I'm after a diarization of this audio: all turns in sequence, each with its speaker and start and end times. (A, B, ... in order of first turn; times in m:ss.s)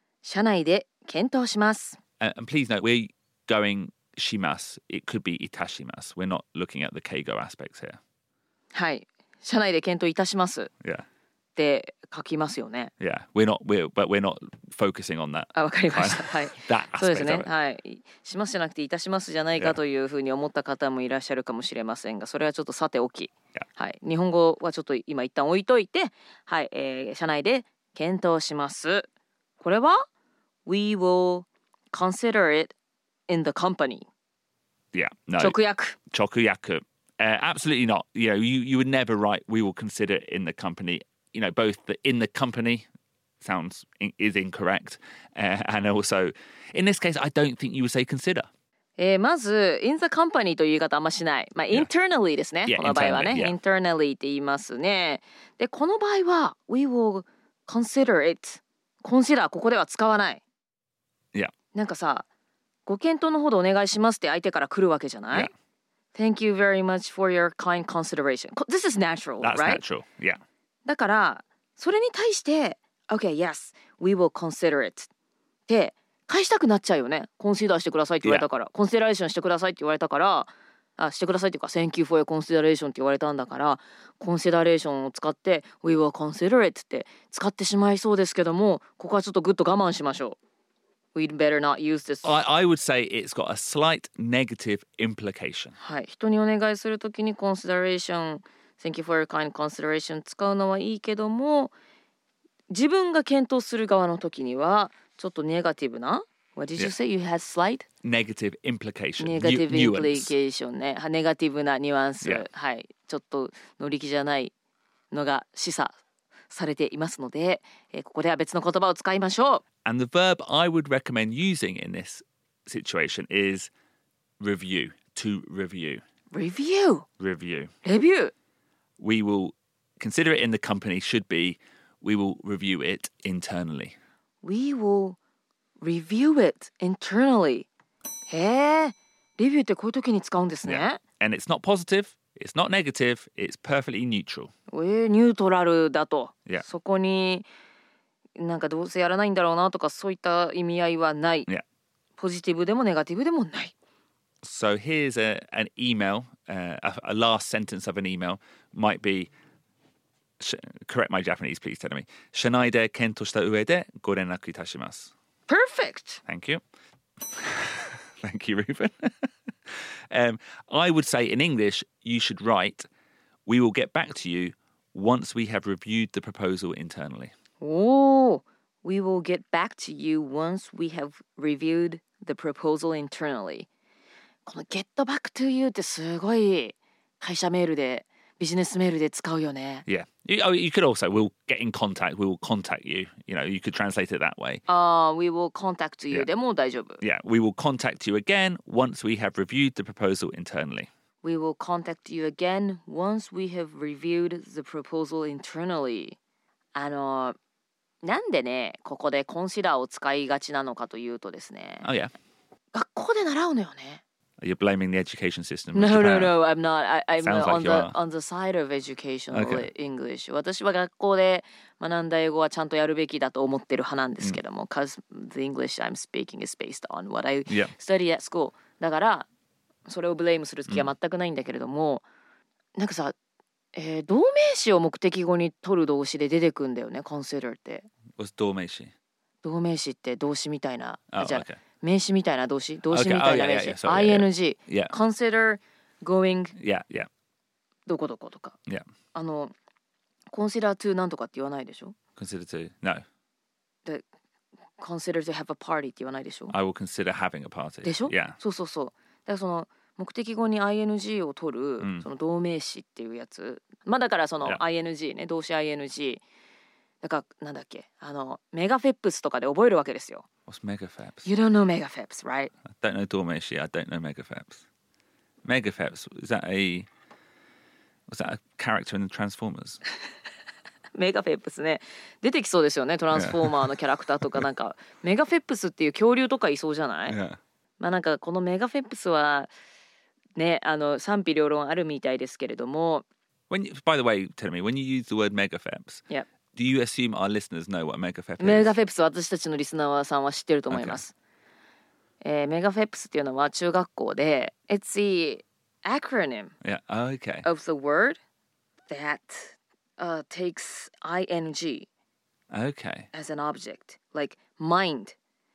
0:00.2-0:02.0 A
0:02.2-0:08.0 B
0:08.7-0:10.7 A
0:11.6-0:12.9 A
0:13.0-0:17.5 B
0:15.5-0:29.1 A
0:29.6-0:30.1 A
0:30.7-0:32.8 A
0:33.3-0:34.1 A
0:34.9-0:35.6 B
0:35.4-0:36.0 A
0:36.1-0:42.8 B
0:43.4-0:48.5 B
0:49.0-1:00.4 A
0:52.7-0:53.6 B
1:01.7-1:02.2 A
1:02.8-1:05.5 A
1:06.2-1:09.8 A
1:09.4-1:10.4 B
1:10.8-1:15.1 A
1:15.7-1:30.4 A
1:31.2-1:32.4 A
1:32.2-1:35.8 B
1:35.8-1:41.7 A
1:42.7-1:47.8 A
1:48.0-1:50.3 B
1:49.2-1:54.5 A
1:55.1-1:55.9 A
1:56.5-1:59.6 A
1:59.8-2:03.7 B
2:04.4-2:06.0 B
2:06.3-2:07.1 A
2:07.2-2:07.7 B
2:07.8-2:08.3 A
2:09.0-2:14.0 B
2:14.4-2:15.2 A
2:15.8-2:17.7 A
2:18.3-2:21.0 A
2:20.6-2:24.5 B
2:24.7-2:27.5 A
2:28.4-2:31.5 A
2:32.2-2:33.7 A
2:34.4-2:39.3 B
2:40.4-2:45.1 B
2:45.5-2:46.2 A
2:46.3-2:46.6 B
2:47.3-2:49.2 B
2:50.1-2:52.9 B
2:53.5-2:57.3 B
2:57.6-3:03.7 A
3:04.4-3:09.9 A
3:09.9-3:14.6 B
3:14.7-3:17.0 A
3:17.0-3:20.9 B
3:21.2-3:26.2 A
3:26.8-3:27.4 A
3:28.0-3:31.9 A
3:31.8-3:32.1 B
3:32.7-3:34.0 A
3:34.4-3:36.4 B
3:35.7-3:49.3 A
3:37.2-3:38.0 B
3:39.3-3:39.7 B
3:47.5-3:47.7 B
3:49.9-3:52.0 A
3:52.8-3:53.1 A
3:53.8-3:57.9 A
3:58.2-3:58.9 B
3:59.4-4:06.5 A
4:01.1-4:01.6 B
4:02.9-4:04.9 B
4:06.6-4:07.1 B
4:07.9-4:08.6 A
4:09.1-4:09.5 A
4:10.3-4:12.0 A
4:12.2-4:13.0 B
4:14.8-4:16.5 A
4:16.5-4:18.4 B
4:17.8-4:26.2 A
4:21.8-4:22.1 B
4:27.0-4:30.3 A
4:30.5-4:31.3 B
4:31.2-4:32.5 A
4:32.7-4:34.6 B
4:35.4-4:36.9 B
4:38.1-4:39.8 B
4:40.9-4:47.2 A
4:43.1-4:43.7 B
4:47.1-4:47.4 B
4:47.8-4:49.5 A
4:50.4-4:53.0 A
4:53.5-4:58.7 B
4:58.4-5:01.1 A
5:00.7-5:01.0 B
5:02.2-5:06.5 A
5:06.6-5:07.4 B
5:07.4-5:08.2 A
5:08.9-5:11.9 A
5:12.5-5:13.1 B
5:13.1-5:15.2 A